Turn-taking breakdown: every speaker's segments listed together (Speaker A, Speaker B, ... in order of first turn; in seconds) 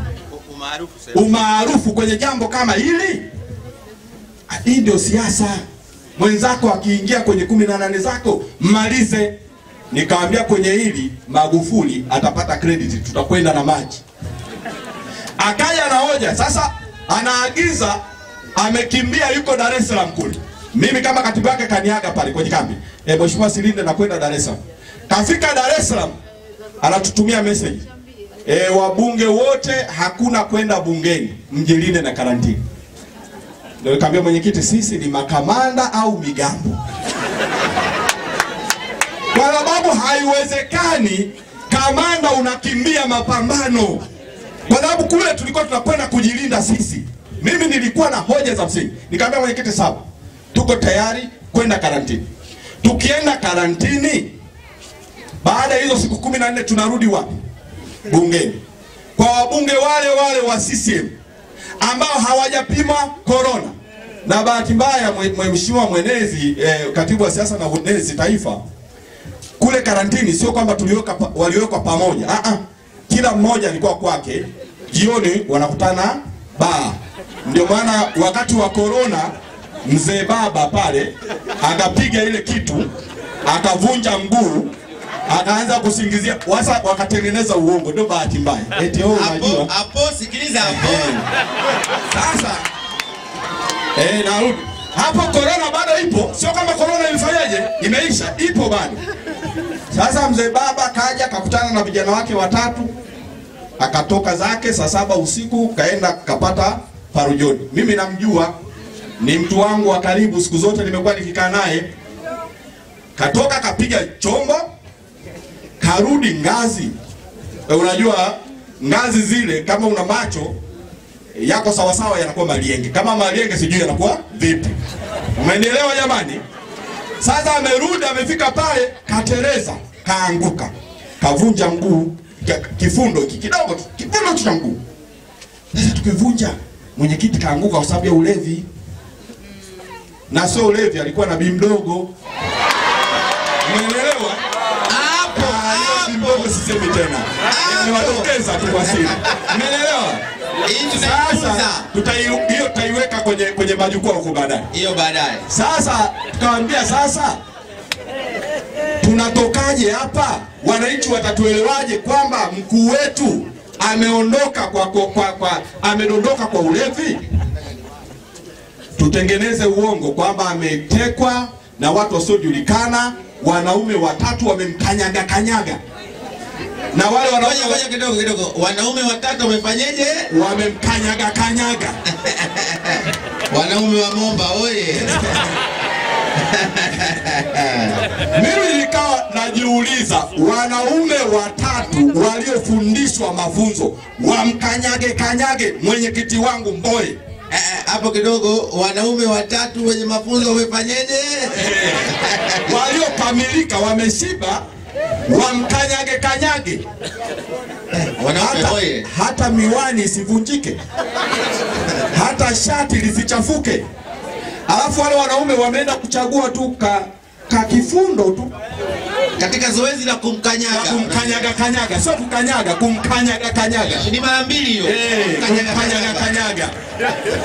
Speaker A: 0.3-1.3, 89.1-91.2, 144.9-146.5, 147.5-149.4, 150.7-151.9, 154.7-155.4, 177.4-180.3, 182.2-185.6, 186.3-188.1, 197.5-202.7, 207.9-209.1, 219.4-221.5, 223.9-226.3
Speaker B: 1.1-3.2, 4.5-5.6, 6.2-9.3, 9.9-14.0, 15.4-18.0, 18.6-24.6, 25.1-26.1, 26.8-27.9, 28.5-32.6, 33.8-36.8, 39.3-44.0, 44.7-52.2, 52.8-54.3, 55.4-57.3, 58.1-58.6, 59.2-61.1, 61.8-63.7, 64.2-68.6, 69.6-79.3, 79.9-82.9, 83.5-84.7, 85.3-89.7, 90.6-91.2, 92.1-92.6, 94.0-99.0, 99.9-102.9, 103.8-108.5, 109.2-111.9, 113.2-114.6, 115.8-116.9, 117.7-120.5, 121.3-124.8, 125.4-126.4, 127.2-134.8, 135.7-138.7, 140.3-142.1, 143.6-144.4, 145.3-150.2, 150.9-154.7, 155.5-157.4, 159.0-167.2, 169.0-175.8, 176.9-177.8, 180.3-182.0, 188.3-197.2, 201.5-204.6, 205.3-206.8, 208.3-210.8, 212.1-213.8, 214.7-218.5, 220.7-224.1, 224.8-226.7